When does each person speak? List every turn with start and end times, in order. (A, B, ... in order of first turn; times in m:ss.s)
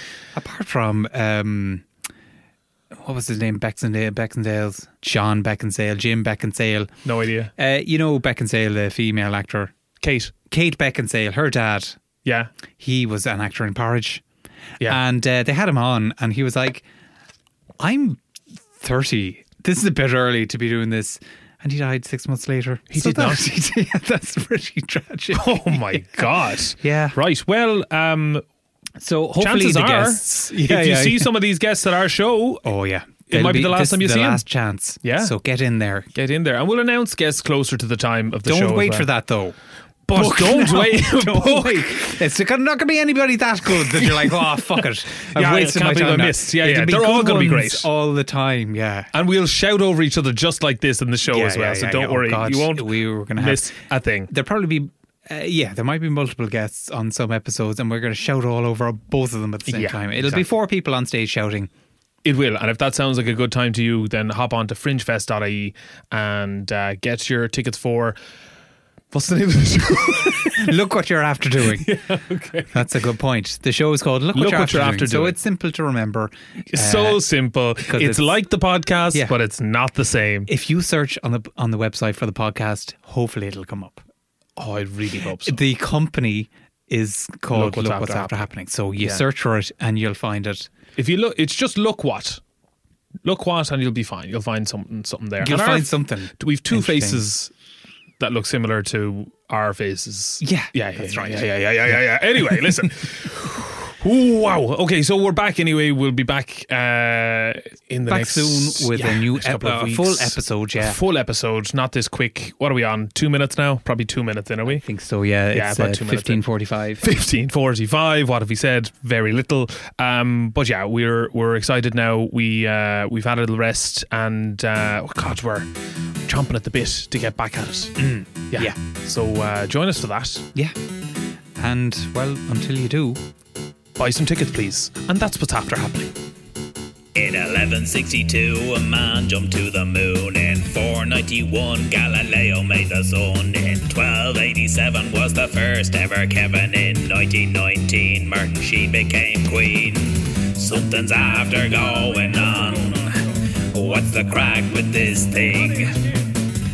0:00.3-0:01.8 A
0:03.0-0:06.9 A
0:07.0-0:07.5 B
0:07.6-0:09.7 A
0:10.0-0:10.3 B
0:10.5-0:12.0 A
0:12.2-0:12.5 B
0:12.8-0:14.2 A
0:14.8-0:16.8 A
0:17.8-0:18.2 A
0:18.8-0:27.2 A
0:22.9-0:23.4 B
0:25.3-0:28.4 B
0:29.0-0:31.4 A
0:29.4-0:32.6 B
0:32.6-0:36.1 A
0:33.3-0:34.4 B
0:35.0-0:35.3 B
0:36.1-0:39.1 B
0:38.4-0:39.6 A
0:40.1-0:42.0 B
0:40.1-0:49.1 A
0:43.6-0:47.9 B
0:49.1-0:54.3 B
0:51.3-0:53.7 A
0:54.3-1:01.7 A
0:59.6-1:00.4 B
1:02.2-1:08.2 B
1:09.1-1:10.8 B
1:10.4-1:11.9 A
1:11.6-1:12.8 B
1:12.7-1:17.2 A
1:14.3-1:15.4 B
1:16.7-1:20.5 B
1:17.9-1:18.3 A
1:20.5-1:24.0 A
1:24.6-1:25.6 B
1:25.4-1:30.7 A
1:27.5-1:28.5 B
1:31.0-1:32.4 B
1:33.2-1:37.5 B
1:35.4-1:37.2 A
1:38.2-1:54.8 B
1:40.4-1:41.9 A
1:48.1-1:51.0 A
1:54.7-1:57.0 A
1:55.5-1:56.4 B
1:57.0-2:05.7 B
2:06.2-2:10.4 B
2:08.0-2:08.8 A
2:11.6-2:13.2 A
2:14.0-2:16.1 B
2:17.1-2:36.0 C